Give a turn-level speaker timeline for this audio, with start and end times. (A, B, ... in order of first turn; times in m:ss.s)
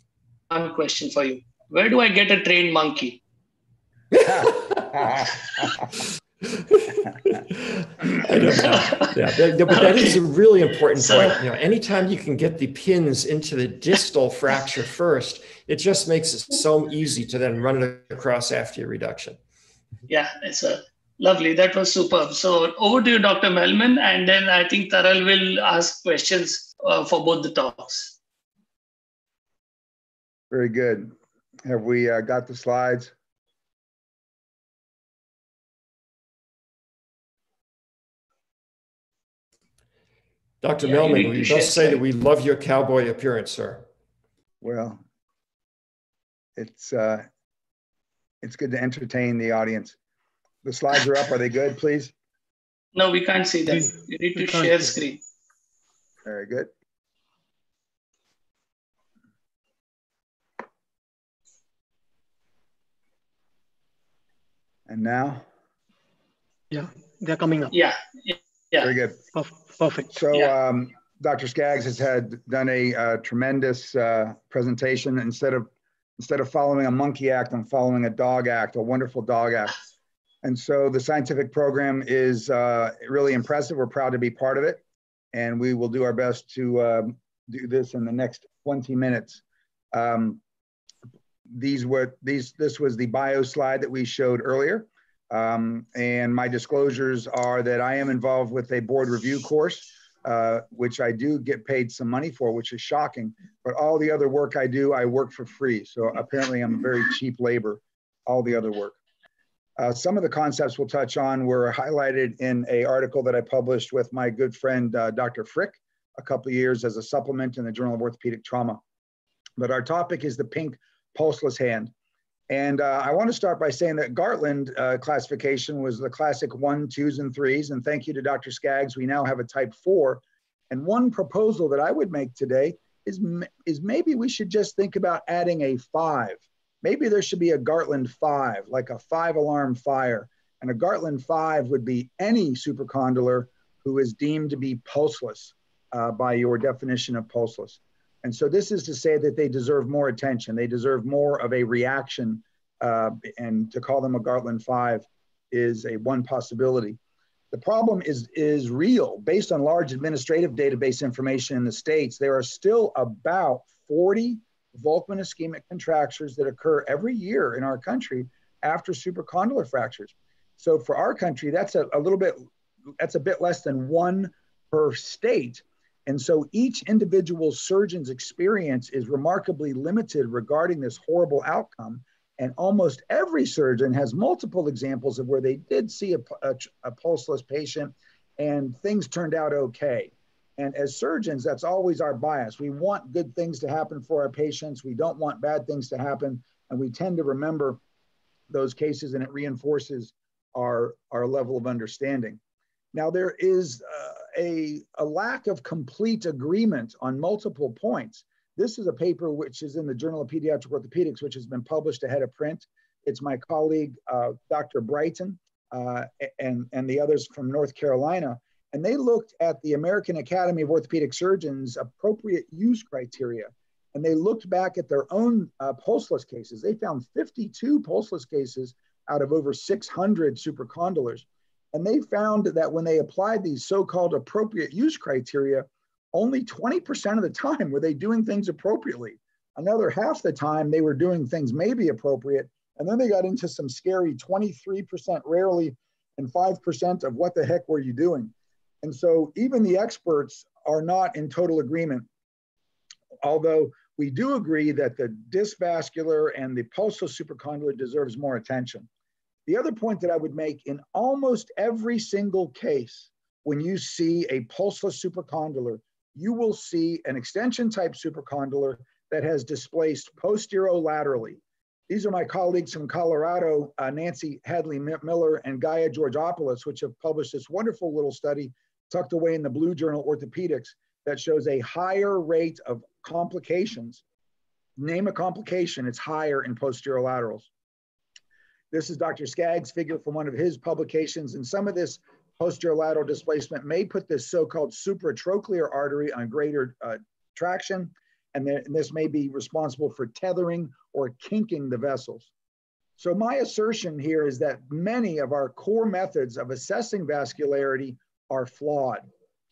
0:00.5-0:03.2 A
0:04.1-0:04.8 B
0:04.2-0:05.8 C
0:06.6-0:19.4 B
0:08.5-0:09.1 A
0:09.7-0:10.2 A
0:11.0-0:11.4 A
0:20.1-0:28.2 A
0:30.5-0:33.1 C
0:40.6-0:43.9 B
0:41.1-0:41.7 A
0:44.6-0:45.0 C
0:46.6-0:47.3 C
0:48.4-0:50.0 C
0:50.6-0:52.1 C
0:53.0-0:55.2 A
0:54.4-0:54.8 D
0:56.2-0:56.7 C
1:04.9-1:05.4 C
1:06.7-1:07.7 D
1:07.7-1:08.9 A
1:08.8-1:09.2 C
1:09.4-1:10.1 D
1:10.1-1:19.8 C
1:20.4-1:24.8 C
1:25.3-1:29.4 C
1:29.9-1:30.4 C
1:31.5-1:49.0 C
1:49.8-1:58.8 C
1:59.6-2:01.9 C
2:02.5-2:37.0 C
2:37.5-2:52.5 C
2:53.0-3:17.8 C
3:18.5-3:22.4 C
3:22.9-4:12.1 C
4:13.2-4:18.9 C
4:19.5-4:44.0 C
4:44.8-4:47.5 C
4:48.7-5:02.3 C
5:03.0-5:09.1 C